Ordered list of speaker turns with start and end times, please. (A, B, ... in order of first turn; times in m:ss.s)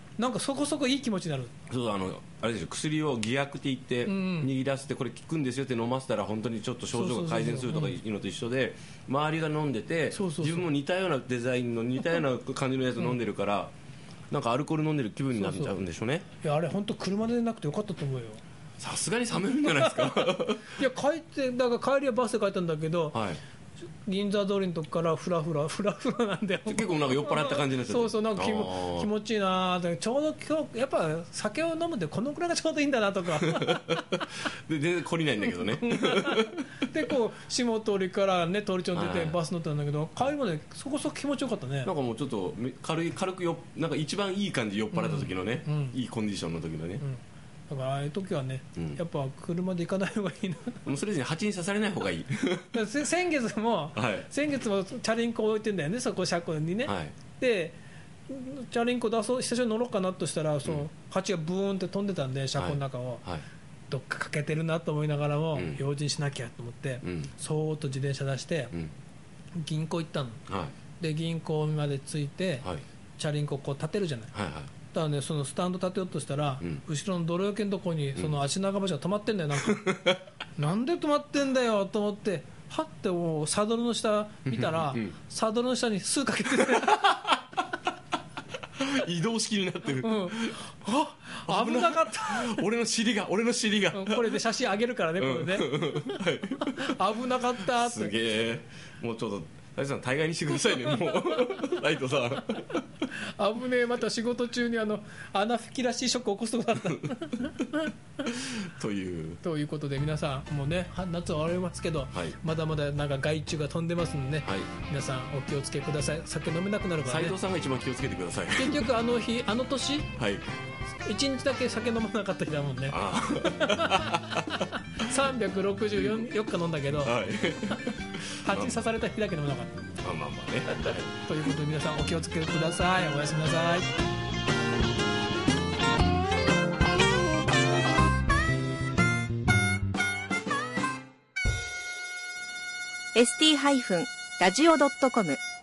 0:00.2-0:01.6 A
0:01.7-0:13.7 B
0:04.1-0:04.5 A
0:06.9-0:08.0 A
0:10.1-0:10.7 A
0:14.3-0:16.3 B
0:15.4-0:15.7 A
0:16.4-0:18.4 A
0:18.8-0:20.8 B
0:19.5-0:23.2 A
0:23.1-0:23.4 B
0:24.0-0:34.2 A
0:26.7-0:29.1 B
0:33.3-0:36.7 B
0:35.8-0:41.9 A
0:38.9-0:39.4 B
0:41.8-0:47.0 B
0:44.9-0:46.0 A
0:47.0-0:50.8 A
0:50.9-0:52.9 B
0:52.7-0:57.8 A
0:54.0-0:54.3 B
0:56.8-0:57.2 B
0:58.3-1:03.2 A
1:02.6-1:03.4 B
1:03.9-1:08.7 A
1:05.5-1:05.8 B
1:07.0-1:07.3 B
1:09.6-1:10.4 A
1:10.5-1:10.7 B
1:11.0-1:14.3 A
1:14.3-1:14.7 B
1:14.9-1:19.8 A
1:19.6-1:20.2 B
1:20.6-1:27.2 A
1:24.5-1:25.1 B
1:26.5-1:27.4 B
1:28.8-1:34.4 B
1:30.0-1:30.6 A
1:31.3-1:32.6 A
1:33.9-1:38.2 A
1:35.2-1:42.8 B
1:40.6-1:41.8 A
1:43.0-1:47.9 A
1:47.0-1:49.4 B
1:49.4-1:57.4 A
1:57.0-1:58.9 B
1:58.6-2:00.1 A
2:00.2-2:00.5 B
2:01.0-2:07.2 A
2:02.9-2:04.7 B
2:07.0-2:08.9 B
2:08.4-2:09.8 A
2:10.0-2:11.1 B
2:10.7-2:13.9 A
2:23.2-2:25.4 C